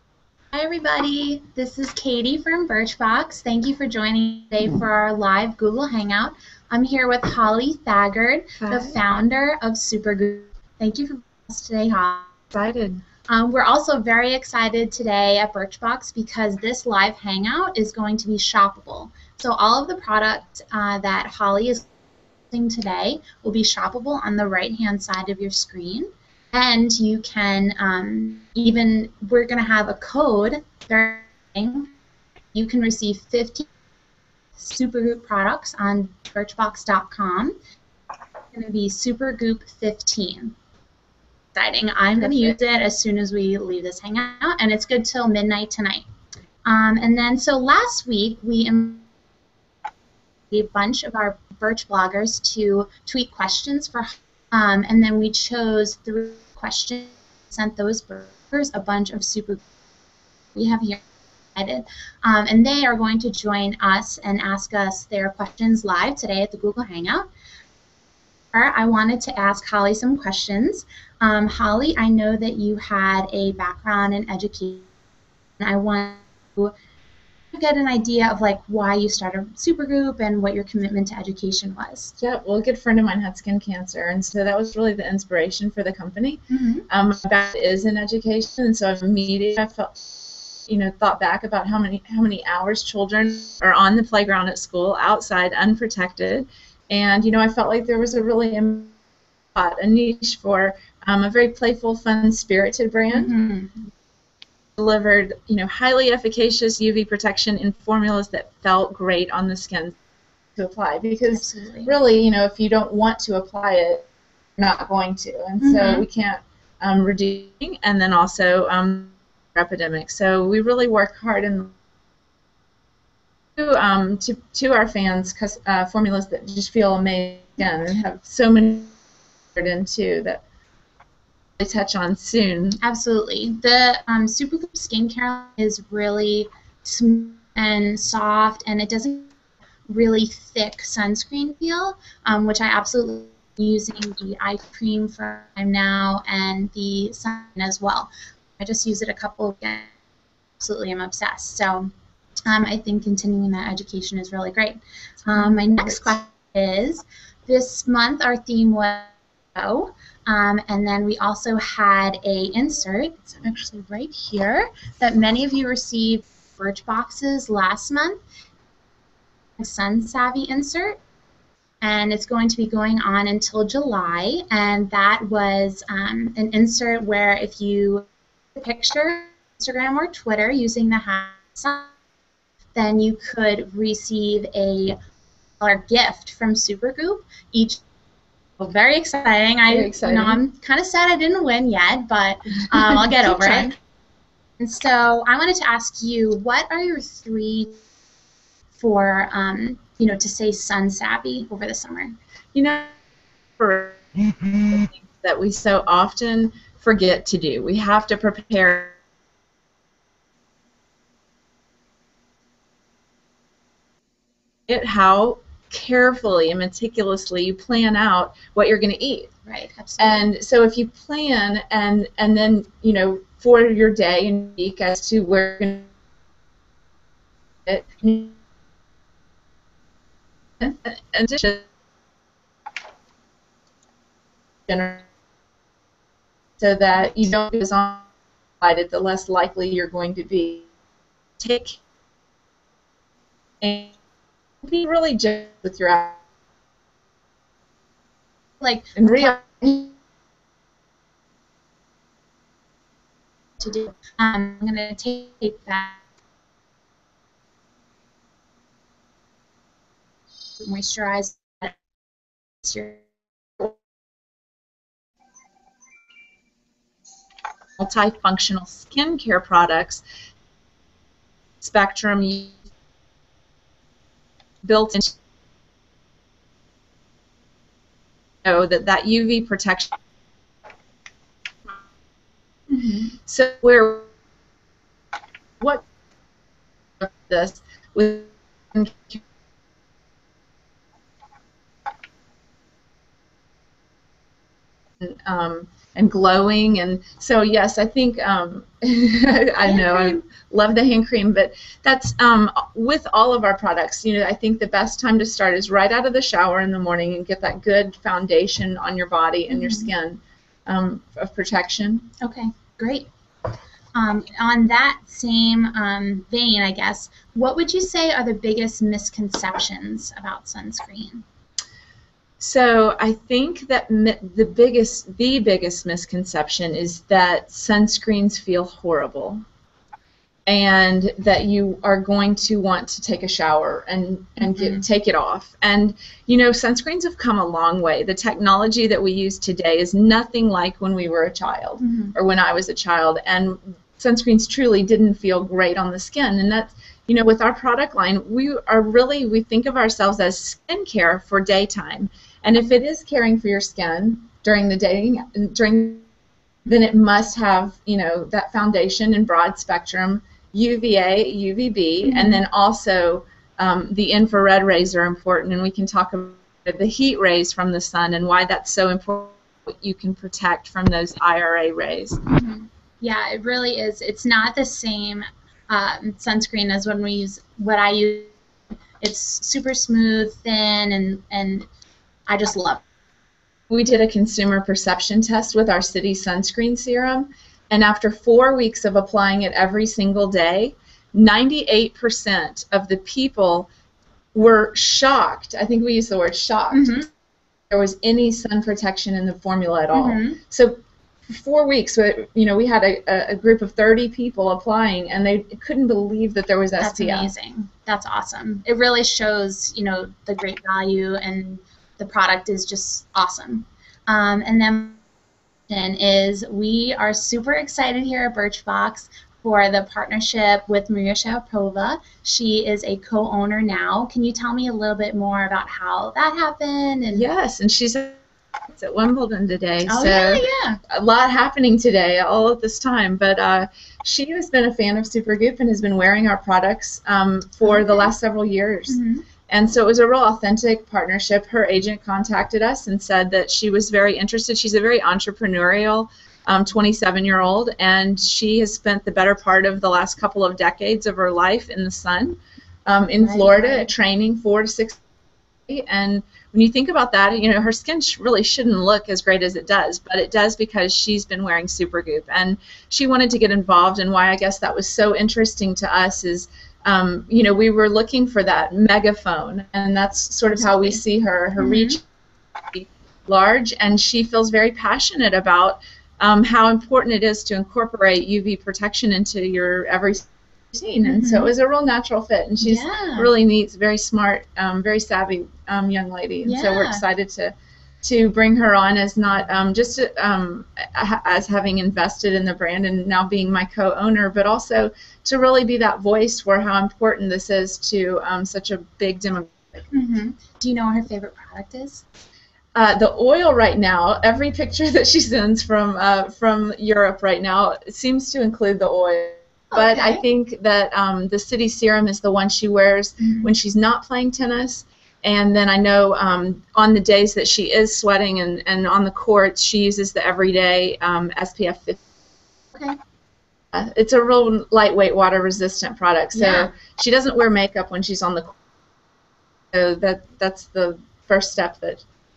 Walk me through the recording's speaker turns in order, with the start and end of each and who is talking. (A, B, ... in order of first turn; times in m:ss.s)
0:00.5-0:12.3 A
0:08.6-0:09.0 B
0:12.5-0:13.0 B
0:13.3-0:21.9 A
0:22.5-0:31.9 A
0:32.5-0:33.7 A
0:34.6-0:37.6 A
0:38.5-0:40.6 A
0:41.5-0:46.0 A
0:42.2-0:42.6 B
0:46.6-0:49.0 A
0:50.5-0:59.6 A
1:00.6-1:01.0 A
1:01.6-1:07.3 A
1:08.5-1:14.9 A
1:15.6-1:16.7 A
1:17.5-1:22.2 A
1:22.2-1:30.0 B
1:26.5-1:26.9 A
1:30.7-1:39.0 B
1:39.6-1:43.3 B
1:43.1-1:43.9 A
1:44.8-1:50.0 B
1:50.6-1:54.1 B
1:51.3-1:51.9 A
1:54.6-2:01.7 B
1:55.6-1:56.0 A
2:03.6-2:08.9 B
2:09.6-2:10.4 B
2:11.6-2:12.8 B
2:12.8-2:19.3 A
2:19.9-2:29.9 A
2:30.6-2:31.9 A
2:32.5-2:48.2 A
2:35.3-2:36.2 B
2:49.6-2:51.0 A
2:51.8-3:01.9 A
3:02.8-3:05.0 A
3:05.6-3:07.8 A
3:08.6-3:13.8 A
3:09.7-3:10.4 B
3:12.7-3:13.8 B
3:14.6-3:17.8 A
3:18.8-3:22.2 A
3:22.5-3:22.9 B
3:23.6-3:29.0 B
3:34.7-3:39.3 B
3:39.5-3:40.2 A
3:40.0-3:45.9 B
3:47.7-3:48.4 B
3:50.6-3:51.7 B
3:54.7-3:55.1 B
3:56.6-3:58.1 B
3:58.6-4:00.7 B
4:01.4-4:01.8 B
4:03.6-4:03.9 B
4:04.6-4:06.2 B
4:08.6-4:09.4 A
4:09.0-4:09.9 B
4:13.6-4:16.0 A
4:20.6-4:21.8 A
4:22.6-4:23.0 A
4:27.8-4:30.0 B
4:31.6-4:32.6 B
4:34.6-4:35.1 B
4:38.4-4:39.9 B
4:42.7-4:43.1 A
4:43.3-4:44.1 B
4:45.6-4:45.8 B
4:47.0-4:49.2 B
4:55.0-5:12.1 B
4:59.6-5:00.2 A
5:09.5-5:09.9 A
5:12.2-5:13.1 A
5:13.9-5:21.2 A
5:22.4-5:29.4 B
5:30.4-5:56.0 B
5:34.5-5:34.8 A
5:41.8-5:42.1 A
5:56.6-6:12.2 B
6:02.0-6:02.4 A
6:12.3-6:18.3 A
6:19.0-6:21.7 A
6:22.3-6:22.8 A
6:23.7-6:33.7 B
6:34.3-6:37.1 B
6:36.7-6:37.1 A
6:37.7-6:47.3 B
6:39.9-6:40.4 A
6:46.8-6:55.0 A
6:55.7-7:07.2 A
7:07.1-7:35.0 B
7:09.8-7:10.8 A
7:17.6-7:18.1 A
7:18.9-7:19.2 A
7:33.2-7:33.9 A
7:35.7-7:52.0 B
7:50.6-7:51.0 A
7:51.6-7:52.0 A
7:52.7-8:19.8 B
8:01.0-8:01.5 A
8:02.6-8:03.3 A
8:06.4-8:07.0 A
8:19.9-8:22.0 A
8:22.8-8:42.0 B
8:29.7-8:30.2 A
8:33.2-8:33.5 A
8:43.7-8:48.6 B
8:46.3-8:46.7 A
8:49.7-8:52.0 B